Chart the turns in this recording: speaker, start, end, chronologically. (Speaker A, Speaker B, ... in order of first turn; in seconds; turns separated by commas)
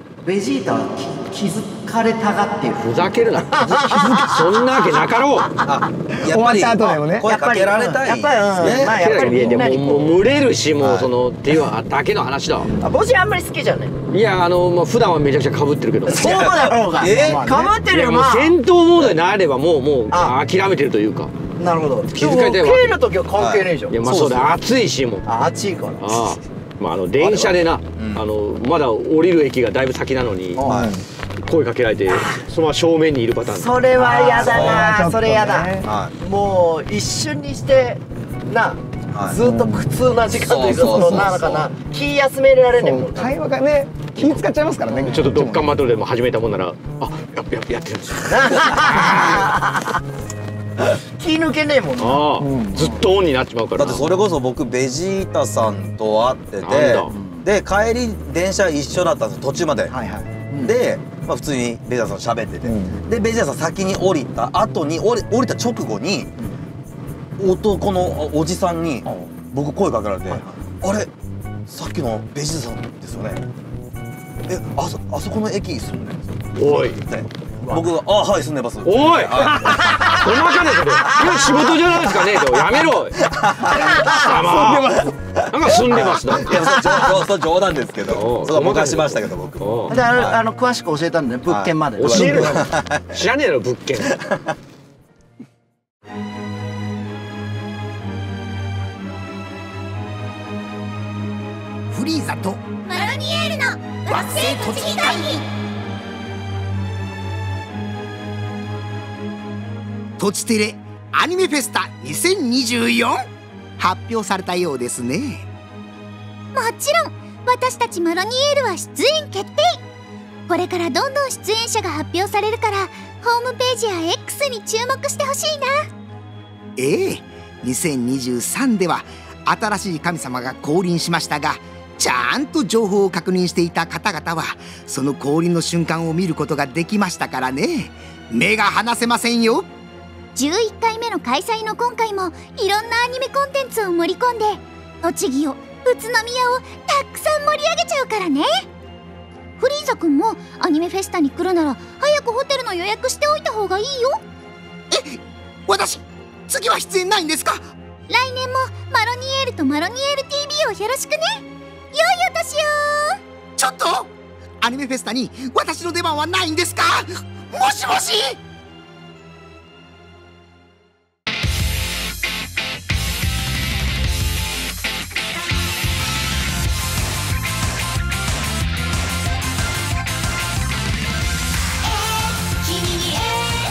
Speaker A: 0.2-4.9, Speaker B: 2.8-5.5, Speaker C: 5.6-9.5, Speaker D: 6.1-7.3, Speaker A: 7.2-10.2, Speaker B: 8.6-12.7, Speaker C: 10.8-11.1, Speaker A: 12.8-13.9, Speaker B: 14.1-16.5, Speaker A: 16.1-18.5, Speaker C: 16.1-17.5, Speaker D: 17.1-17.8, Speaker B: 17.9-21.3, Speaker A: 21.6-23.9, Speaker B: 22.1-23.0, Speaker C: 23.4-24.5, Speaker B: 23.9-25.3, Speaker A: 25.2-26.1, Speaker B: 26.0-30.6, Speaker C: 27.2-28.2, Speaker A: 30.6-30.9, Speaker D: 30.6-31.1, Speaker C: 30.6-30.9, Speaker B: 31.4-33.8, Speaker A: 32.1-32.4, Speaker A: 33.5-43.4, Speaker D: 34.0-35.9, Speaker C: 34.4-34.9, Speaker C: 35.8-36.1, Speaker C: 39.1-39.4, Speaker D: 39.4-39.9, Speaker C: 40.3-41.7, Speaker D: 42.8-45.7, Speaker B: 44.9-49.5, Speaker A: 48.3-50.0, Speaker A: 51.2-52.2, Speaker B: 52.0-54.1, Speaker D: 52.4-53.0, Speaker C: 53.8-59.9, Speaker B: 56.6-57.1, Speaker A: 57.1-57.5, Speaker D: 59.9-60.3, Speaker A: 60.5-60.7, Speaker C: 60.6-66.3, Speaker D: 62.6-63.0, Speaker C: 67.4-71.1, Speaker D: 69.0-69.3, Speaker C: 71.7-73.5, Speaker C: 74.5-80.3, Speaker B: 76.5-77.0, Speaker B: 78.8-86.8, Speaker A: 79.6-81.8, Speaker C: 83.2-84.1, Speaker A: 84.0-84.3, Speaker D: 84.0-85.1, Speaker C: 85.4-90.4, Speaker B: 88.1-89.9, Speaker A: 89.9-92.6, Speaker C: 91.5-93.2, Speaker B: 92.0-94.2, Speaker C: 94.0-94.5, Speaker E: 101.9-102.6, Speaker F: 102.9-105.4, Speaker E: 104.1-105.4, Speaker E: 110.2-113.2, Speaker E: 113.8-115.4, Speaker F: 116.5-119.8, Speaker F: 120.5-125.9, Speaker E: 126.8-139.7, Speaker F: 140.3-148.7, Speaker F: 149.6-154.2, Speaker E: 154.9-157.7, Speaker F: 158.1-163.2, Speaker E: 163.6-164.1, Speaker E: 164.6-168.4, Speaker F: 182.7-183.3